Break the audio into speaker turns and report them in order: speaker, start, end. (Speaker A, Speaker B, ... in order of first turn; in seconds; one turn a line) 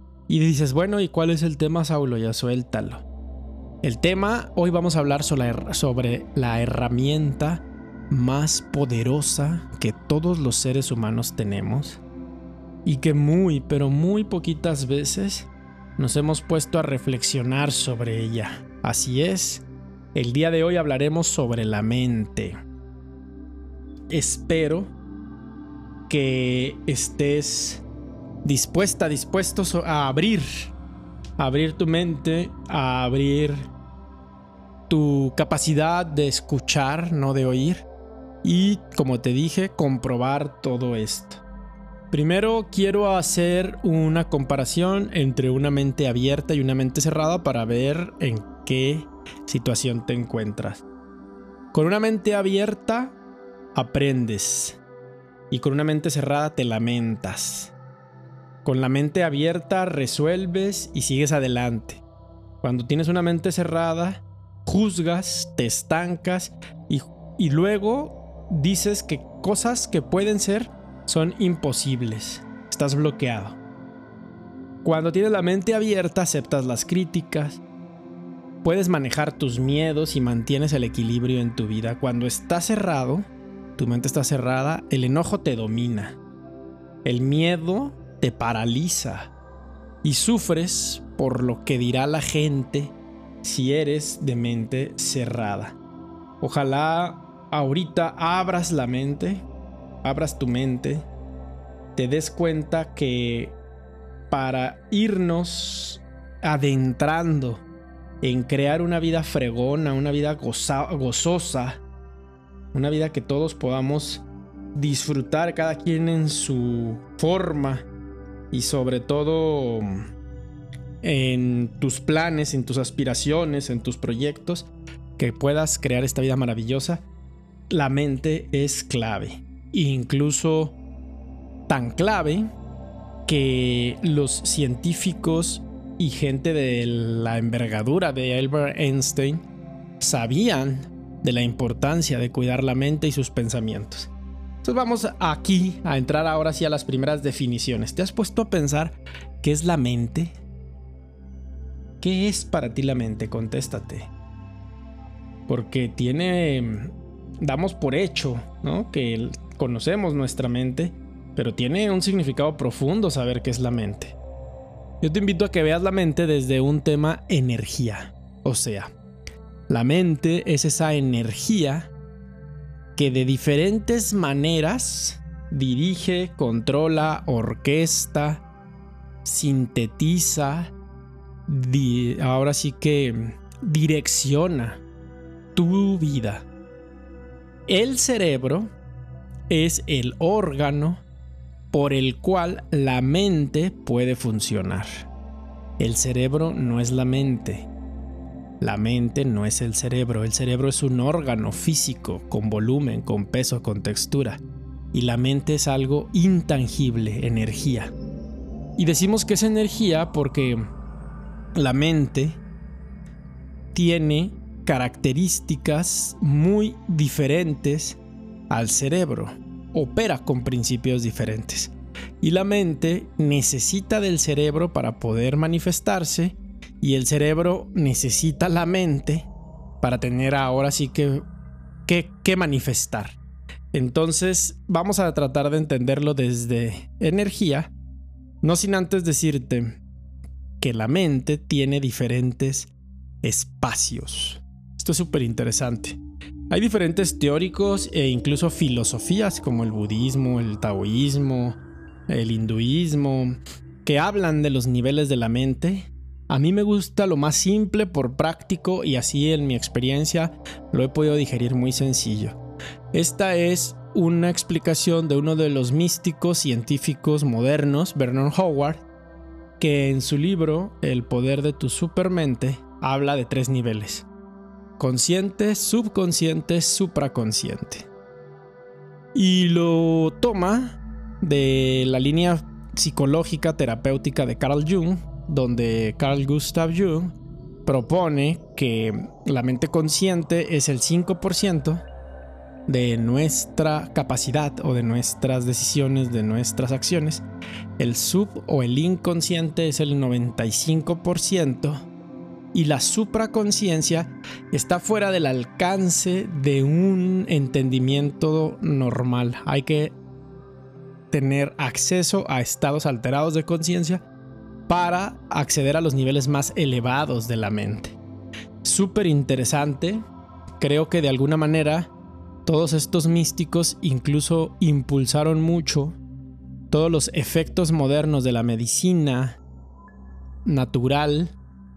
Speaker A: 0.3-3.0
Speaker A: 3.8-12.0
Speaker A: 12.8-22.6
Speaker A: 24.1-24.9
Speaker A: 26.1-27.9
Speaker A: 28.4-30.7
Speaker A: 31.4-33.7
Speaker A: 34.9-37.9
Speaker A: 38.4-41.4
Speaker A: 42.1-50.8
Speaker A: 51.7-53.2
Speaker A: 53.8-54.8
Speaker A: 55.5-57.7
Speaker A: 58.6-62.0
Speaker A: 62.6-73.6
Speaker A: 74.8-77.6
Speaker A: 78.6-86.2
Speaker A: 87.0-89.3
Speaker A: 90.0-95.8
Speaker A: 96.4-99.5
Speaker A: 100.0-101.1
Speaker A: 102.0-103.6
Speaker A: 104.3-107.6
Speaker A: 108.2-111.8
Speaker A: 112.7-117.9
Speaker A: 118.5-120.1
Speaker A: 121.0-127.0
Speaker A: 127.7-130.8
Speaker A: 131.7-132.5
Speaker A: 133.3-139.4
Speaker A: 140.0-144.1
Speaker A: 144.6-150.4
Speaker A: 152.0-154.1
Speaker A: 155.5-164.2
Speaker A: 165.0-168.9
Speaker A: 169.7-171.9
Speaker A: 173.0-178.4
Speaker A: 179.2-180.7
Speaker A: 181.5-184.8
Speaker A: 185.6-186.5
Speaker A: 187.7-188.7
Speaker A: 189.5-191.0
Speaker A: 191.7-195.1
Speaker A: 195.8-197.7
Speaker A: 198.6-204.4
Speaker A: 204.9-207.9
Speaker A: 208.8-210.6
Speaker A: 211.6-212.4
Speaker A: 213.7-218.0
Speaker A: 218.5-229.3
Speaker A: 229.8-231.2
Speaker A: 231.9-233.2
Speaker A: 233.7-237.7
Speaker A: 238.4-239.8
Speaker A: 240.6-242.7
Speaker A: 243.2-246.0
Speaker A: 246.5-262.4
Speaker A: 262.9-268.8
Speaker A: 269.6-274.1
Speaker A: 274.8-277.9
Speaker A: 279.1-291.8
Speaker A: 292.7-297.2
Speaker A: 297.8-301.9
Speaker A: 302.5-310.0
Speaker A: 311.1-314.0
Speaker A: 314.7-318.0
Speaker A: 318.6-320.0
Speaker A: 320.6-321.9
Speaker A: 322.5-326.0
Speaker A: 326.7-329.4
Speaker A: 330.4-331.4